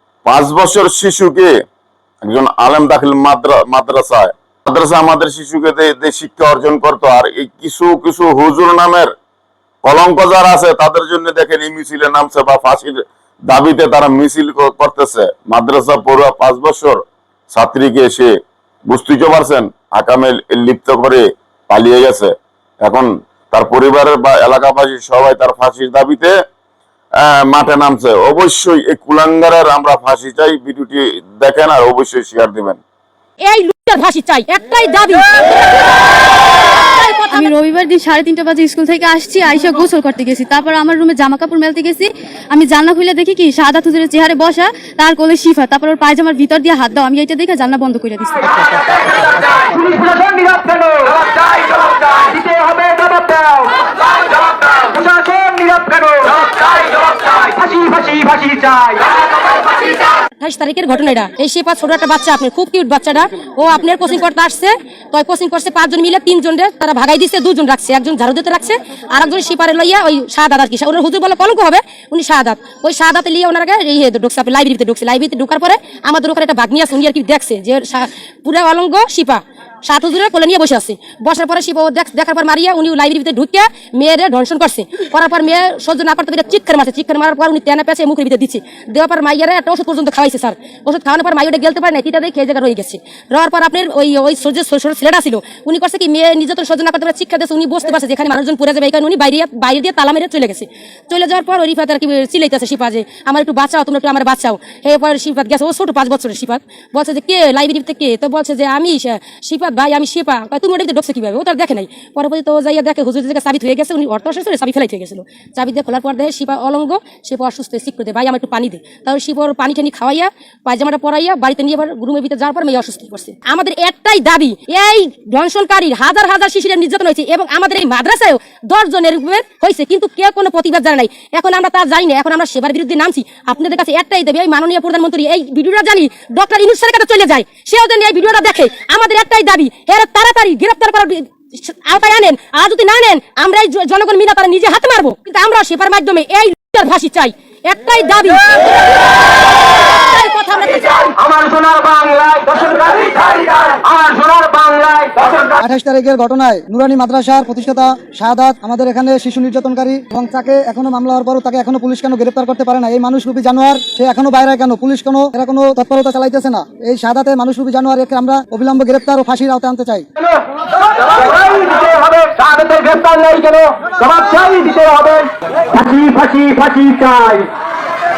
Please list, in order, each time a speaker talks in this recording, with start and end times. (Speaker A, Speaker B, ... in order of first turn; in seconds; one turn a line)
Speaker A: 0.2-1.5
Speaker A: 2.2-9.1
Speaker A: 9.8-18.3
Speaker A: 18.9-26.3
Speaker A: 27.2-32.8
Speaker B: 33.4-37.5
Speaker C: 37.3-49.6
Speaker D: 49.7-53.8
Speaker D: 54.6-56.5
Speaker D: 57.2-59.1
Speaker B: 60.4-149.1
Speaker B: 149.8-151.1
Speaker D: 151.2-155.4
Speaker E: 155.6-170.1
Speaker D: 171.0-177.5